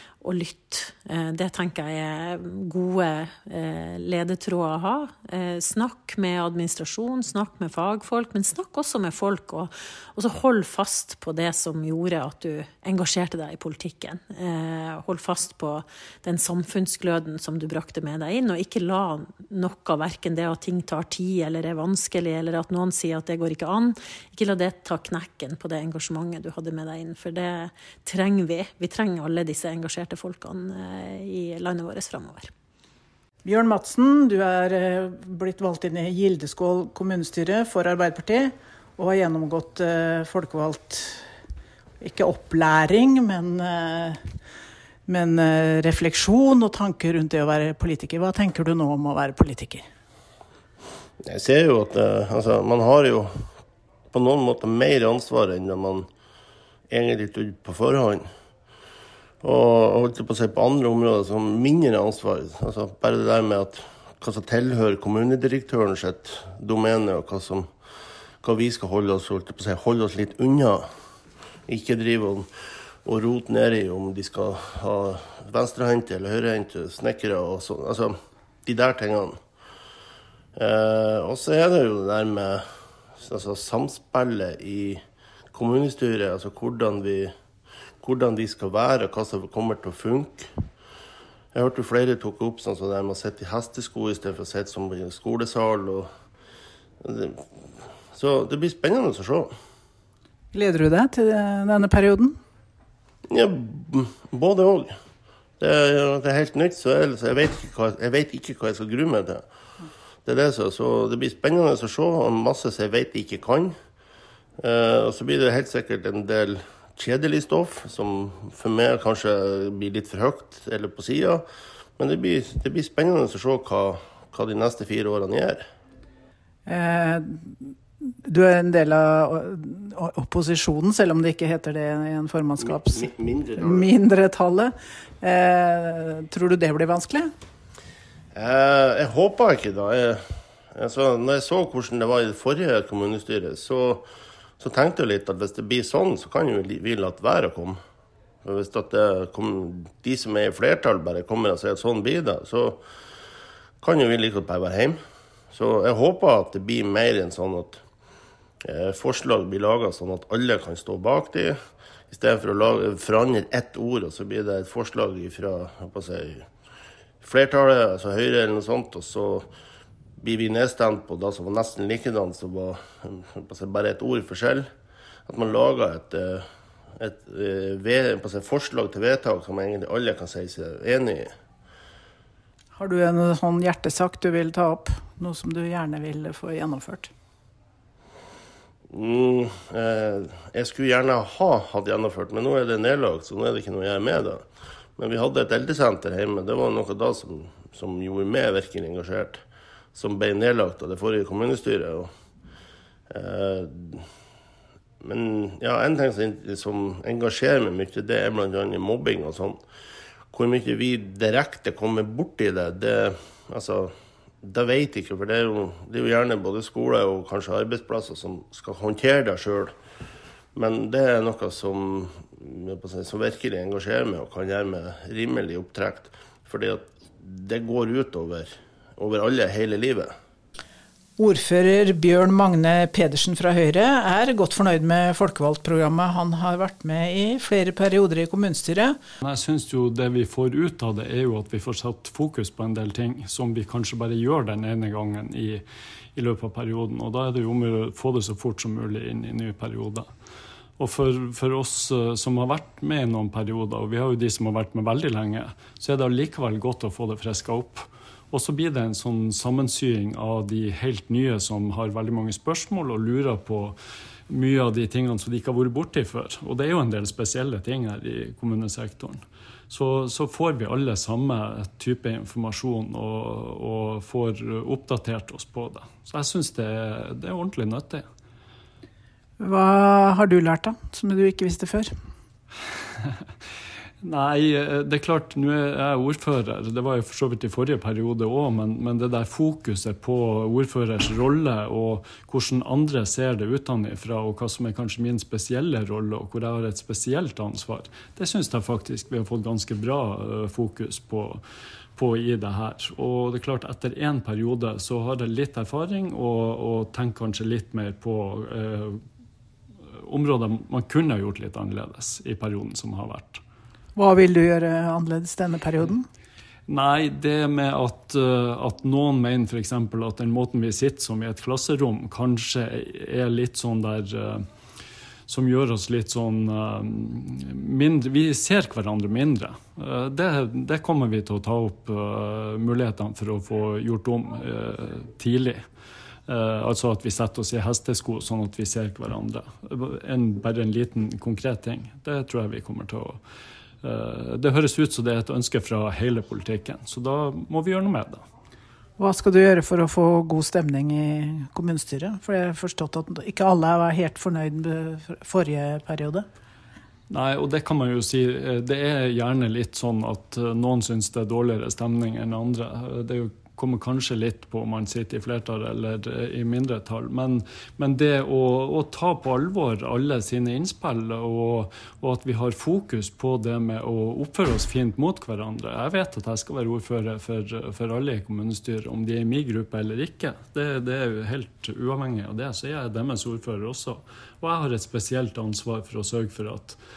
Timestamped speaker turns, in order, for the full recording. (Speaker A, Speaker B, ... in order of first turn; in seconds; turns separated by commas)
Speaker A: 0.2-32.5, Speaker B: 33.4-41.2, Speaker B: 42.0-44.2, Speaker B: 45.1-49.8, Speaker C: 51.2-53.5, Speaker C: 54.1-56.1, Speaker C: 56.9-58.3, Speaker C: 59.4-67.7, Speaker C: 68.4-70.8, Speaker C: 71.7-72.5, Speaker C: 73.0-79.4, Speaker C: 80.5-82.6, Speaker C: 83.2-85.0, Speaker C: 85.5-87.3, Speaker C: 88.0-90.5, Speaker C: 91.5-96.1, Speaker C: 97.0-97.4, Speaker C: 98.1-99.5, Speaker B: 100.5-102.3, Speaker C: 103.3-104.9, Speaker C: 105.6-109.5, Speaker C: 110.2-113.7, Speaker C: 114.6-121.5, Speaker C: 122.0-125.7, Speaker B: 126.7-127.7, Speaker B: 128.3-137.3, Speaker C: 132.6-133.9, Speaker C: 138.3-140.2, Speaker C: 140.7-144.1, Speaker C: 144.6-147.8, Speaker C: 148.4-152.8, Speaker C: 153.8-155.0, Speaker C: 155.5-157.8, Speaker C: 158.6-161.6, Speaker C: 162.1-166.4, Speaker C: 167.2-169.5, Speaker C: 170.2-174.7, Speaker C: 175.3-176.4, Speaker C: 177.0-181.3, Speaker B: 182.8-187.1, Speaker C: 188.9-194.4, Speaker C: 195.0-199.4, Speaker C: 199.9-202.1, Speaker C: 203.1-204.0, Speaker C: 205.0-209.6, Speaker C: 210.3-213.9, Speaker C: 214.4-219.7, Speaker C: 220.5-230.1, Speaker B: 231.2-239.0, Speaker D: 239.2-245.6, Speaker D: 246.2-250.1, Speaker D: 250.8-263.8, Speaker D: 264.3-278.1, Speaker B: 279.4-281.9, Speaker D: 284.0-301.4, Speaker D: 302.0-309.0, Speaker D: 310.0-313.4, Speaker B: 314.0-316.1, Speaker D: 316.7-324.4, Speaker D: 325.3-335.7, Speaker D: 336.3-343.2, Speaker D: 343.8-348.2, Speaker B: 349.0-356.2, Speaker D: 357.1-386.8